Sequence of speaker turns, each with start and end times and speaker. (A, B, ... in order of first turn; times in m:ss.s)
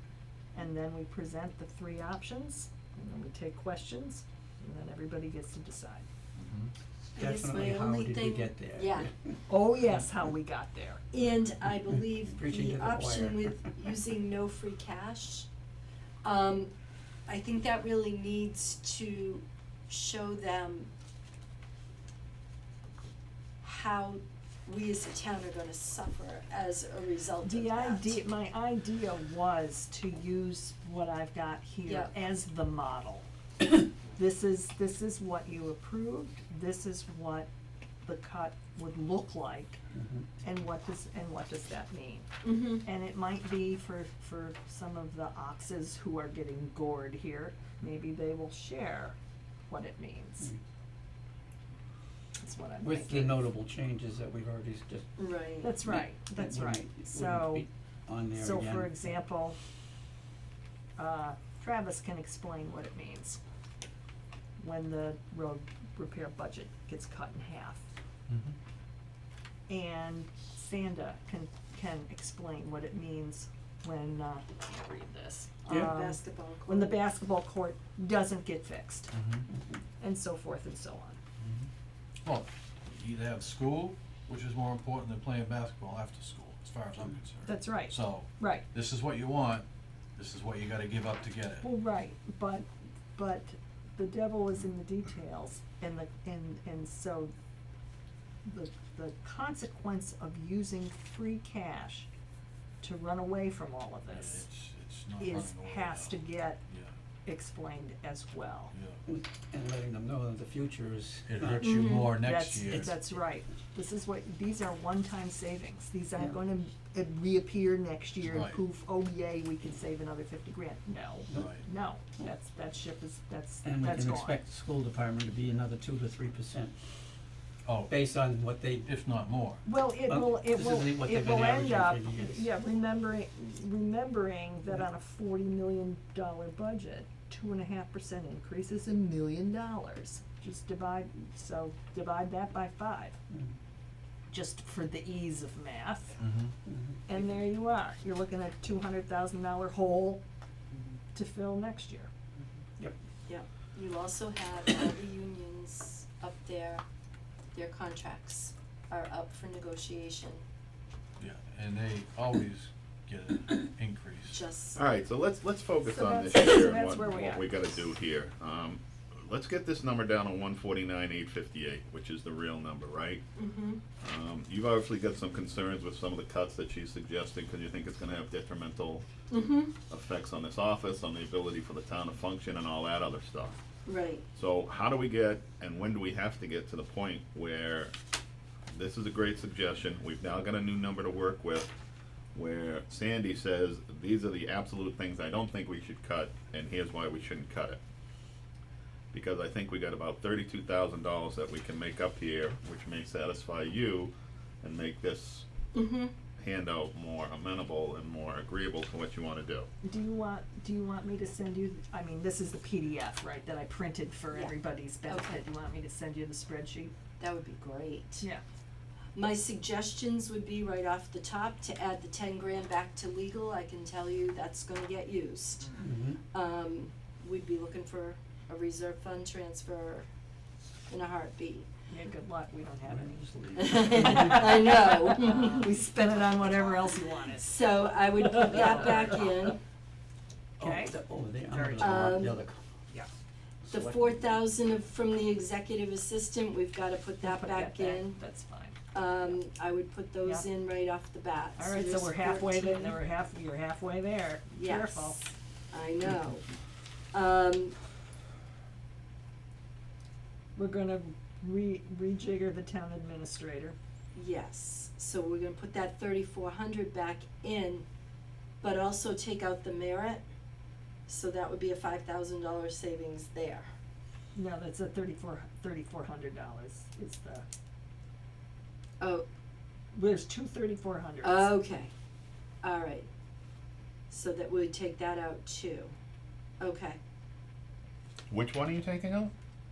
0:00.5-0:06.0 A
0:06.3-0:06.7 B
0:07.2-0:09.1 C
0:07.2-0:09.4 D
0:09.5-0:11.0 A
0:11.1-0:15.5 C
0:12.1-0:13.6 D
0:16.2-0:16.7 C
0:17.3-0:20.9 C
0:23.6-0:28.2 C
0:27.4-0:33.3 A
0:31.8-0:32.1 C
0:34.1-0:37.5 A
0:38.0-0:39.8 A
0:39.9-0:40.3 D
0:40.4-0:42.3 A
0:42.4-0:42.8 C
0:42.8-0:49.2 A
0:49.7-0:50.5 A
0:52.4-0:53.4 A
0:52.8-0:55.1 D
0:55.2-0:55.7 C
0:55.6-0:57.6 A
0:55.8-0:59.2 D
0:58.3-0:59.6 A
1:01.0-1:03.4 A
1:04.6-1:07.8 A
1:08.3-1:08.6 B
1:09.7-1:19.1 A
1:15.7-1:17.0 C
1:19.1-1:19.5 B
1:20.0-1:21.2 A
1:21.4-1:21.7 B
1:22.2-1:31.7 B
1:27.4-1:28.6 A
1:31.6-1:37.3 A
1:38.4-1:42.1 A
1:42.8-1:44.4 A
1:44.1-1:47.0 B
1:45.2-1:46.6 A
1:47.2-1:48.7 A
1:48.7-1:49.0 B
1:49.0-1:52.0 D
1:51.2-1:52.9 B
1:51.6-1:52.2 C
1:52.1-2:04.4 A
1:52.6-1:53.2 D
1:58.2-1:58.6 B
2:01.3-2:01.6 B
2:03.6-2:06.7 D
2:07.6-2:07.9 B
2:07.9-2:08.9 D
2:08.8-2:09.6 B
2:09.6-2:23.2 A
2:10.1-2:12.4 D
2:23.3-2:23.6 D
2:24.3-2:26.2 A
2:26.2-2:26.5 B
2:26.6-2:27.2 D
2:27.1-2:30.2 A
2:31.1-2:32.1 A
2:33.2-2:36.8 C
2:37.5-2:40.4 C
2:41.2-2:44.4 B
2:44.3-2:44.8 C
2:44.7-2:53.2 E
2:45.8-2:47.8 A
2:53.4-2:53.8 C
2:54.0-2:59.0 E
2:59.3-2:59.7 C
2:59.9-3:03.6 E
3:03.8-3:04.2 C
3:04.3-3:07.9 E
3:08.7-3:11.7 E
3:12.3-3:17.8 E
3:19.1-3:25.5 E
3:25.7-3:26.1 C
3:26.4-3:29.7 E
3:29.8-3:36.9 A
3:34.3-3:35.4 C
3:37.2-3:38.2 C
3:39.1-3:50.1 C
3:45.8-3:46.2 D
3:50.9-3:51.7 C
3:51.9-3:57.5 A
3:52.8-3:54.7 D
3:53.6-3:55.8 C
3:57.1-3:59.6 C
3:58.3-3:59.2 A
4:00.6-4:02.6 D
4:00.6-4:02.2 A
4:01.8-4:02.4 C
4:03.7-4:04.2 D
4:03.7-4:08.2 C
4:07.2-4:09.4 A
4:08.9-4:13.0 C
4:11.6-4:15.2 A
4:14.5-4:16.4 C
4:17.1-4:17.8 C
4:20.6-4:23.8 A
4:24.1-4:27.8 C
4:28.6-4:30.2 C
4:31.1-4:33.7 C
4:34.3-4:37.4 A
4:39.0-4:39.2 C
4:39.9-4:41.6 A
4:41.2-4:41.9 C
4:42.6-4:43.1 C
4:44.1-4:45.9 C
4:46.6-4:47.0 C
4:48.3-4:49.3 E